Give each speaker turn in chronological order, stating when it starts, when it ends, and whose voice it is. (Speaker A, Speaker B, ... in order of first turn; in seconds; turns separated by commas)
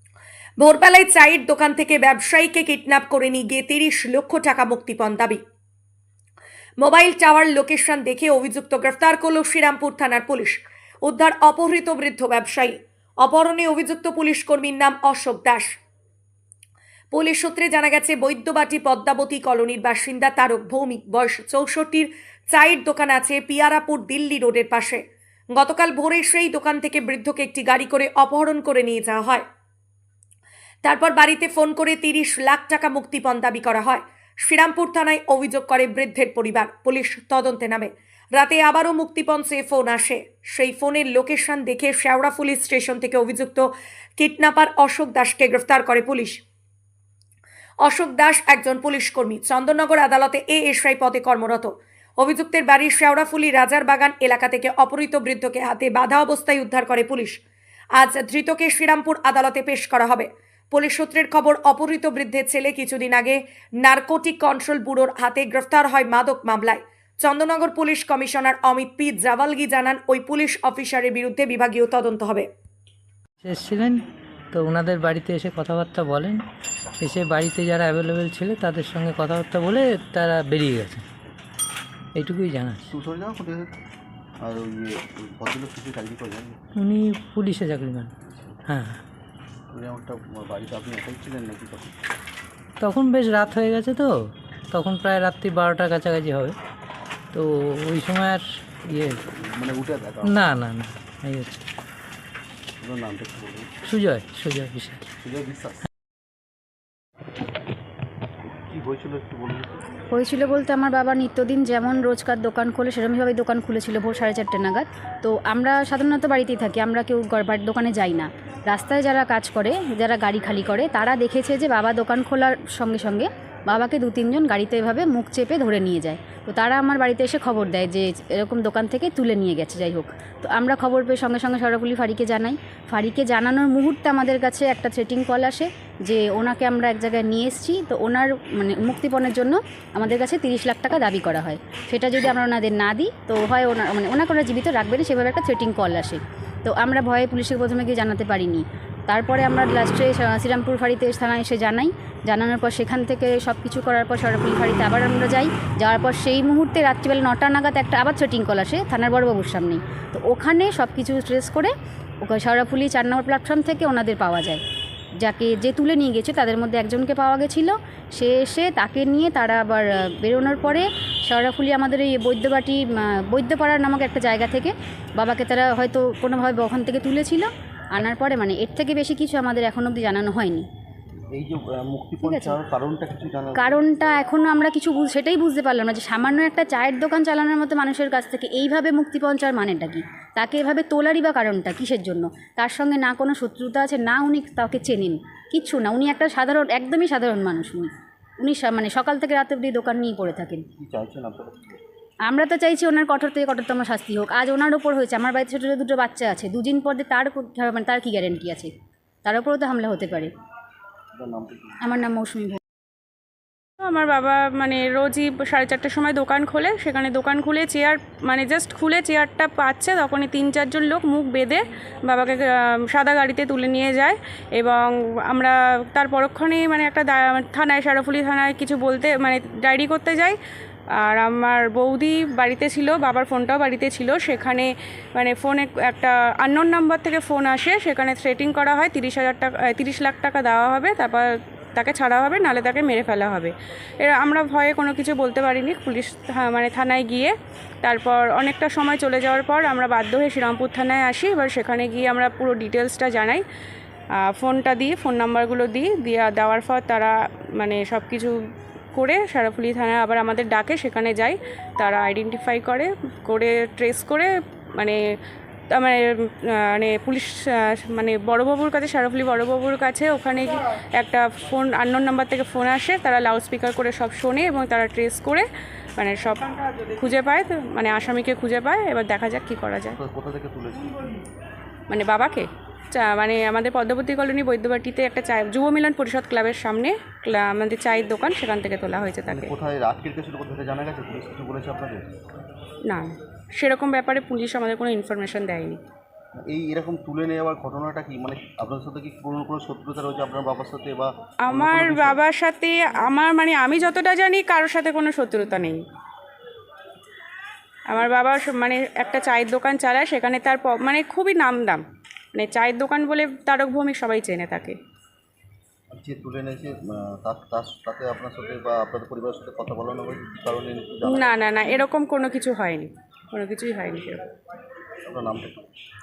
Speaker A: 0.6-5.4, Speaker A: 6.8-15.8, Speaker A: 17.1-25.0, Speaker A: 25.5-29.4, Speaker A: 30.8-46.4, Speaker A: 47.8-57.4, Speaker A: 58.0-72.5, Speaker B: 73.4-74.0, Speaker B: 74.5-76.4, Speaker B: 77.0-81.0, Speaker B: 82.1-82.9, Speaker C: 82.9-83.7, Speaker C: 84.4-86.6, Speaker B: 86.8-88.1, Speaker B: 88.7-89.0, Speaker C: 89.7-91.9, Speaker B: 92.8-94.2, Speaker B: 94.7-96.5, Speaker B: 97.3-99.2, Speaker C: 99.3-100.3, Speaker B: 100.2-101.6, Speaker C: 102.8-103.7, Speaker B: 103.9-105.0, Speaker C: 105.2-105.8, Speaker C: 108.7-109.8, Speaker D: 110.1-161.7, Speaker D: 162.2-164.6, Speaker D: 165.2-180.7, Speaker C: 181.3-183.8, Speaker D: 182.2-182.6, Speaker D: 183.6-197.9, Speaker D: 198.4-200.6, Speaker C: 200.7-201.8, Speaker D: 202.3-208.7, Speaker D: 209.2-210.3, Speaker C: 211.1-211.8, Speaker D: 211.8-212.6, Speaker E: 213.8-230.4, Speaker E: 231.0-253.4, Speaker E: 254.3-258.4, Speaker E: 258.9-265.0, Speaker E: 265.7-275.4, Speaker E: 276.0-280.0, Speaker C: 279.9-281.1, Speaker E: 281.9-289.5, Speaker C: 289.3-292.1, Speaker E: 292.9-295.8, Speaker C: 296.4-302.2, Speaker E: 301.5-305.8, Speaker E: 307.9-311.8, Speaker E: 312.3-314.8, Speaker C: 315.9-321.3, Speaker E: 321.0-324.3, Speaker C: 325.1-325.7